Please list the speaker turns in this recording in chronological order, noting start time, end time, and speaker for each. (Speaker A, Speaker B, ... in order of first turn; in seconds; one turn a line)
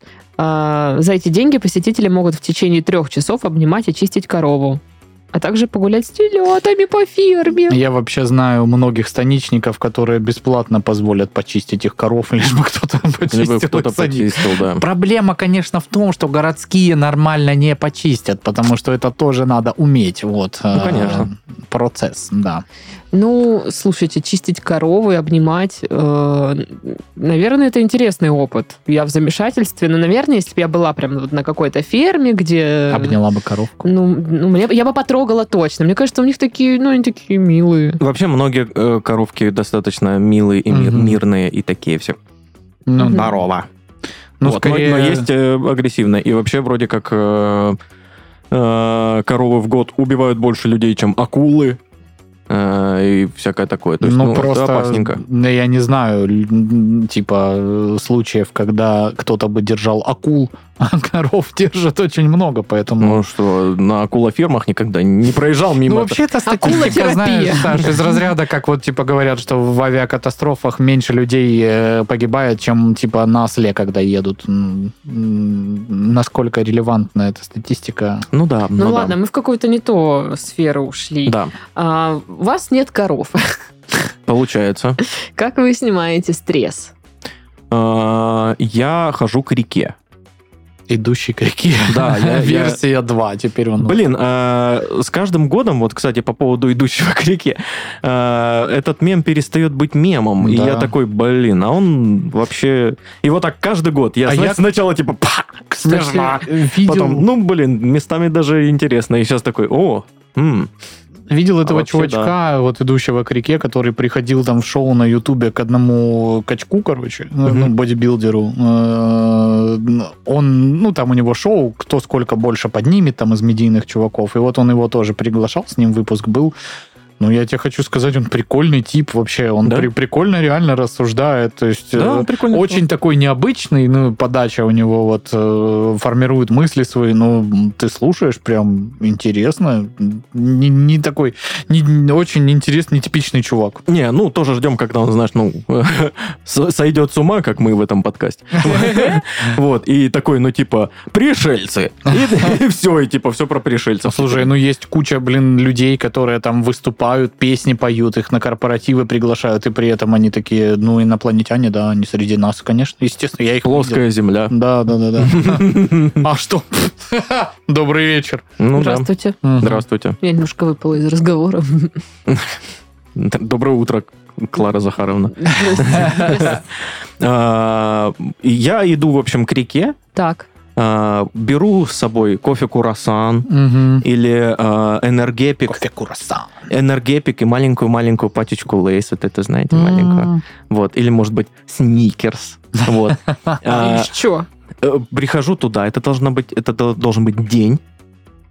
Speaker A: 0.4-4.8
Speaker A: 5.3-7.8
Speaker B: 7.7-22.6
Speaker C: 13.3-14.8
Speaker C: 20.7-21.3
Speaker A: 23.1-33.2
Speaker B: 32.9-33.8
Speaker A: 33.8-38.0
Speaker C: 38.0-42.2
Speaker B: 40.7-41.2
Speaker B: 42.9-43.4
Speaker A: 43.0-43.2
Speaker C: 43.0-43.7
Speaker B: 44.4-45.3
Speaker C: 44.4-47.8
Speaker C: 48.5-51.8
Speaker C: 52.5-55.2
Speaker B: 54.0-63.2
Speaker C: 63.0-67.0
Speaker B: 65.8-78.3
Speaker A: 66.4-67.9
Speaker C: 78.3-79.1
Speaker A: 78.8-84.0
Speaker C: 81.2-81.5
Speaker C: 84.3-85.0
Speaker A: 85.0-86.9
Speaker C: 87.7-89.9
Speaker B: 90.9-94.0
Speaker C: 91.9-92.8
Speaker C: 93.8-110.7
Speaker B: 100.4-100.9
Speaker B: 104.2-104.6
Speaker B: 105.8-107.2
Speaker B: 111.3-126.5
Speaker C: 111.6-112.3
Speaker C: 117.5-117.7
Speaker B: 127.2-143.8
Speaker C: 131.9-132.8
Speaker C: 143.9-154.5
Speaker B: 148.7-149.2
Speaker B: 154.0-168.4
Speaker C: 163.6-164.6
Speaker C: 165.2-166.2
Speaker C: 168.6-170.2
Speaker A: 168.8-169.4
Speaker B: 169.4-169.8
Speaker A: 170.2-172.0
Speaker C: 172.3-172.6
Speaker C: 173.2-180.0
Speaker A: 175.4-176.6
Speaker A: 180.1-180.5
Speaker C: 180.8-183.5
Speaker B: 183.5-184.1
Speaker C: 184.0-185.8
Speaker B: 185.7-186.6
Speaker C: 186.7-194.1
Speaker B: 189.7-190.4
Speaker A: 193.7-194.5
Speaker C: 194.8-197.8